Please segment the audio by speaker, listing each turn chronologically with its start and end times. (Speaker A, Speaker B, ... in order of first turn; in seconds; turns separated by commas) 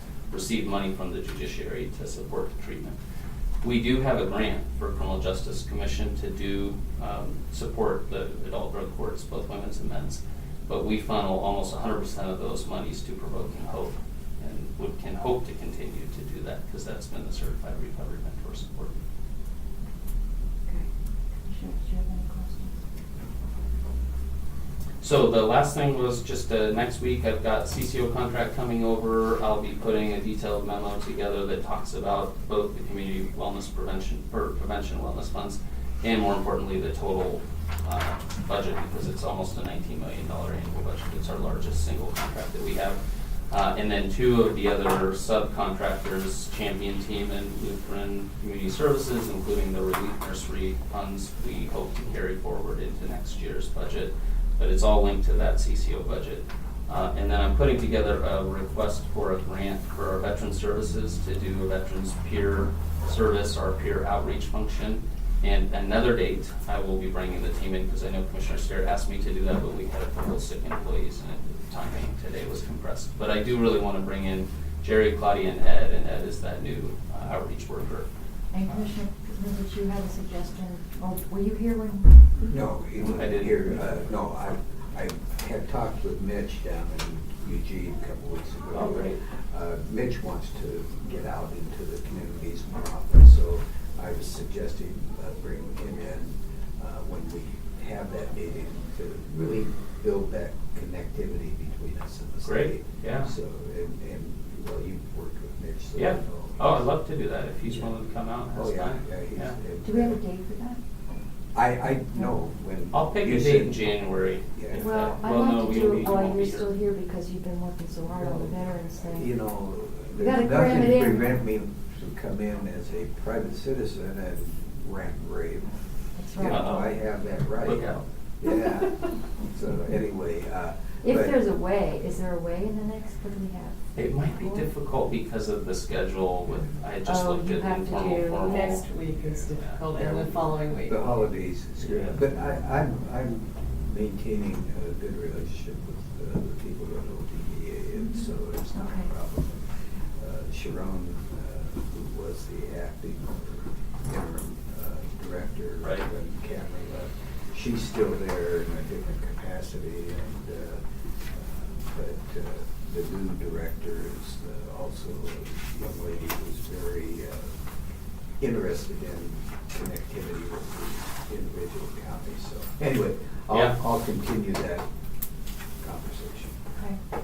Speaker A: 0.3-3.0, Speaker A: 3.6-19.0, Speaker B: 21.4-22.8, Speaker A: 25.0-78.1, Speaker B: 78.5-82.3, Speaker C: 82.4-106.8, Speaker A: 83.0-83.8, Speaker A: 88.7-89.2, Speaker A: 102.4-103.3, Speaker A: 106.0-109.6, Speaker C: 108.5-110.2, Speaker B: 109.8-110.8, Speaker C: 111.5-113.9, Speaker A: 112.9-116.7, Speaker C: 114.5-114.9, Speaker B: 114.7-119.3, Speaker C: 118.2-125.8, Speaker B: 120.2-121.3, Speaker B: 126.2-126.6, Speaker C: 126.3-127.9, Speaker A: 126.4-127.0, Speaker A: 127.6-128.1, Speaker C: 128.4-131.4, Speaker B: 131.0-134.7, Speaker A: 133.9-140.5, Speaker B: 137.1-138.8, Speaker D: 138.4-141.1, Speaker C: 140.9-149.7, Speaker A: 141.9-142.2, Speaker B: 148.0-148.2, Speaker B: 148.7-149.1, Speaker C: 150.2-160.8, Speaker C: 161.3-167.5, Speaker C: 168.4-174.8, Speaker C: 175.8-176.6